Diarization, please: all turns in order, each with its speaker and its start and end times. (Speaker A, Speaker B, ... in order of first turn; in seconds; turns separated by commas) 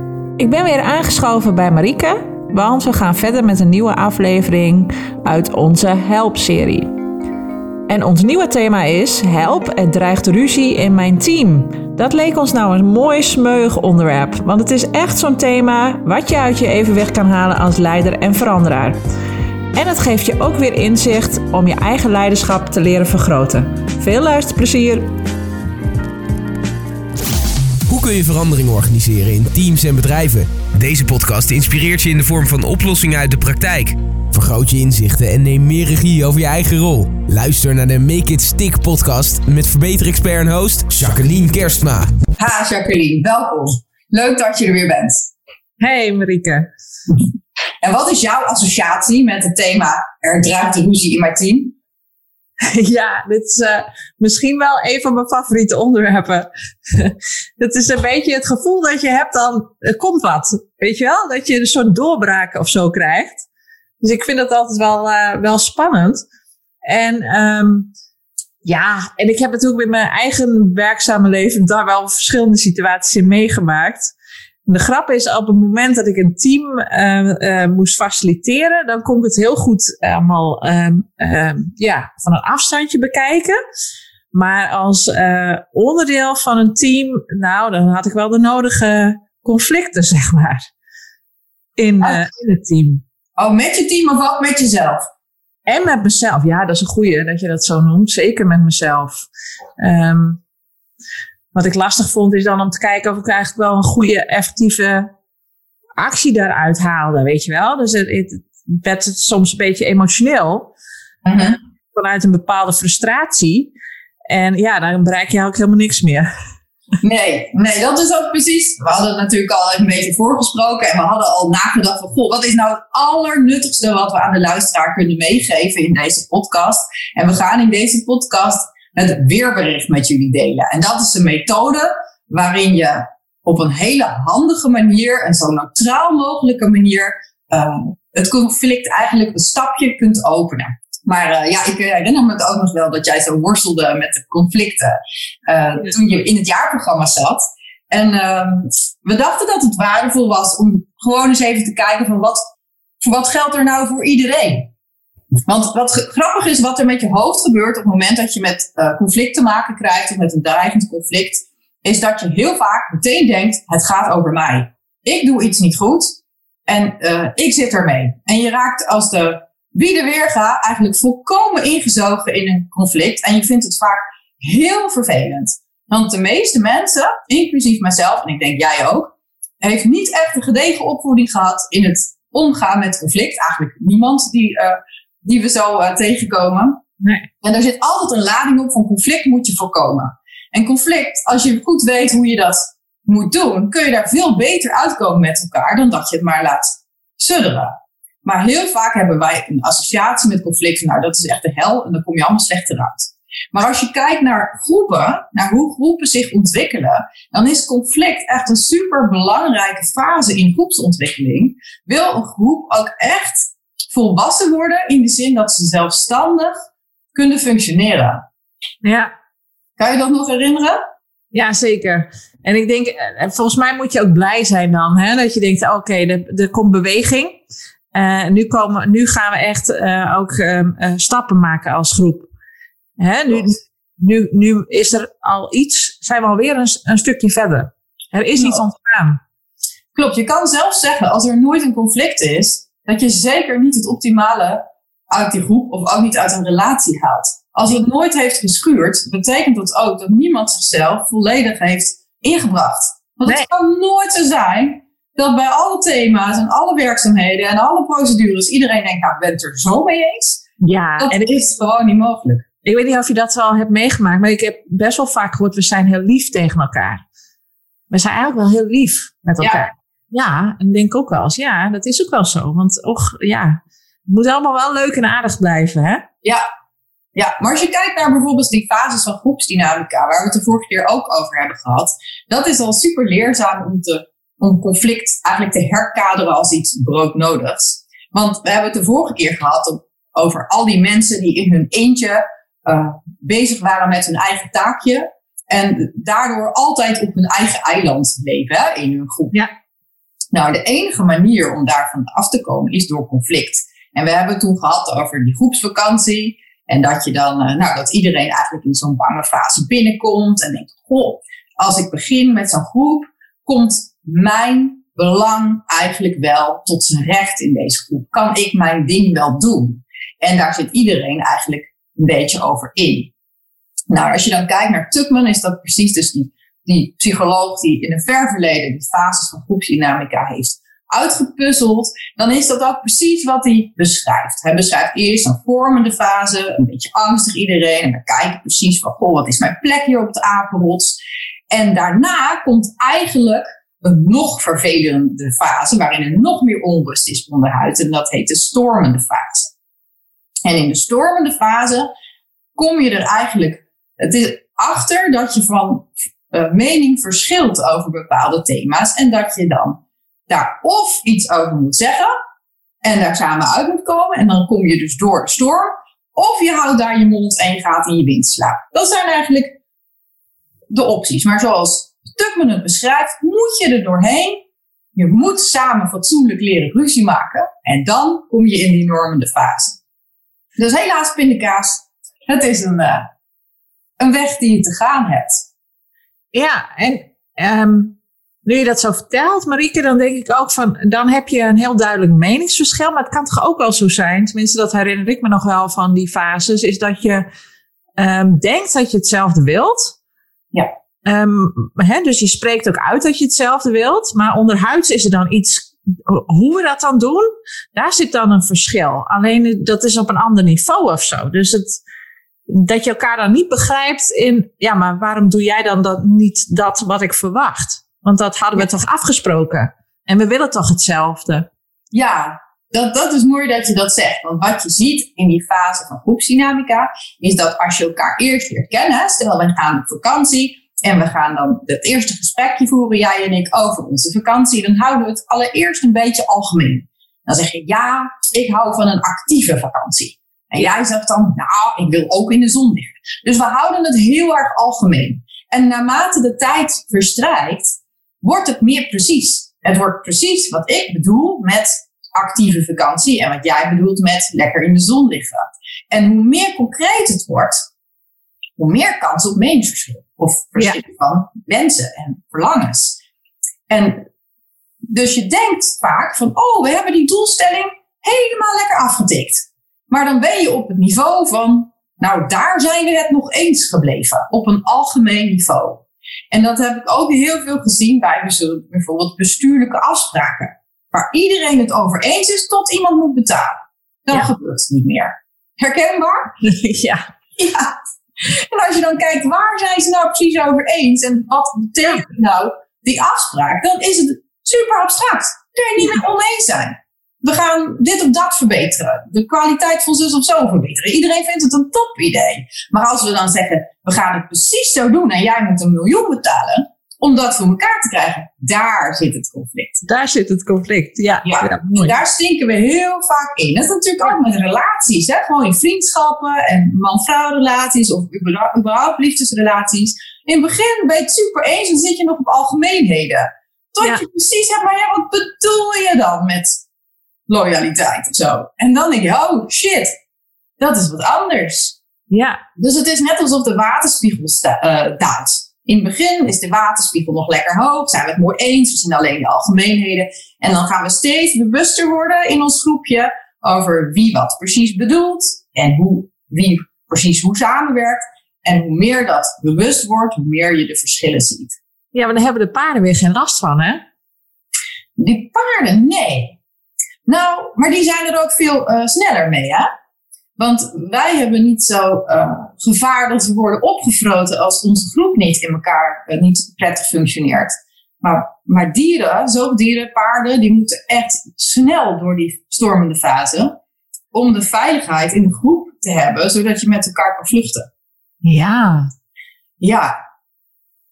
Speaker A: 0.4-6.9, Speaker A: 7.9-19.0, Speaker A: 19.7-25.1, Speaker B: 27.9-42.1, Speaker C: 42.4-45.3, Speaker A: 45.8-46.7, Speaker C: 47.8-51.7, Speaker A: 52.6-63.4, Speaker A: 64.0-66.2, Speaker A: 66.8-67.9, Speaker A: 68.6-74.1, Speaker A: 74.7-83.6, Speaker A: 84.3-90.7, Speaker A: 91.8-93.0, Speaker C: 93.4-95.0, Speaker A: 95.7-99.3, Speaker A: 99.8-100.4, Speaker A: 101.5-105.1, Speaker A: 106.0-110.7, Speaker C: 111.2-111.6, Speaker A: 111.4-113.7, Speaker A: 114.3-116.3, Speaker C: 117.0-152.4, Speaker C: 153.0-154.7, Speaker C: 155.4-186.8, Speaker A: 187.0-187.3, Speaker C: 187.4-216.5, Speaker C: 217.1-218.2, Speaker A: 218.8-219.1, Speaker C: 219.8-220.8, Speaker A: 221.3-227.4, Speaker A: 227.9-232.3, Speaker A: 233.0-239.2, Speaker C: 238.3-238.6, Speaker C: 239.9-260.4, Speaker A: 260.6-261.4, Speaker C: 261.0-262.4, Speaker A: 262.6-267.0, Speaker A: 267.9-276.0, Speaker C: 269.4-269.6, Speaker C: 277.1-299.4, Speaker C: 300.3-323.1, Speaker C: 323.9-341.0, Speaker C: 341.5-349.5, Speaker C: 350.4-351.9, Speaker C: 352.6-362.1, Speaker C: 362.8-369.6, Speaker C: 370.7-374.4, Speaker C: 374.9-379.8, Speaker C: 380.6-383.1, Speaker C: 384.0-385.4, Speaker A: 386.3-397.3, Speaker A: 398.0-399.9, Speaker A: 401.0-411.8, Speaker A: 412.5-421.5, Speaker C: 421.9-457.6, Speaker C: 458.6-463.0, Speaker C: 463.7-464.0, Speaker C: 464.9-486.3, Speaker A: 486.4-487.1, Speaker C: 487.4-509.8, Speaker A: 509.8-511.9, Speaker C: 511.2-526.6, Speaker C: 527.3-529.9, Speaker C: 530.6-531.8, Speaker A: 532.1-532.4, Speaker C: 532.5-551.5, Speaker A: 551.9-553.8, Speaker C: 555.0-556.4, Speaker C: 557.0-559.7, Speaker C: 560.4-573.5, Speaker C: 574.1-577.7, Speaker A: 578.2-578.9, Speaker C: 579.6-579.9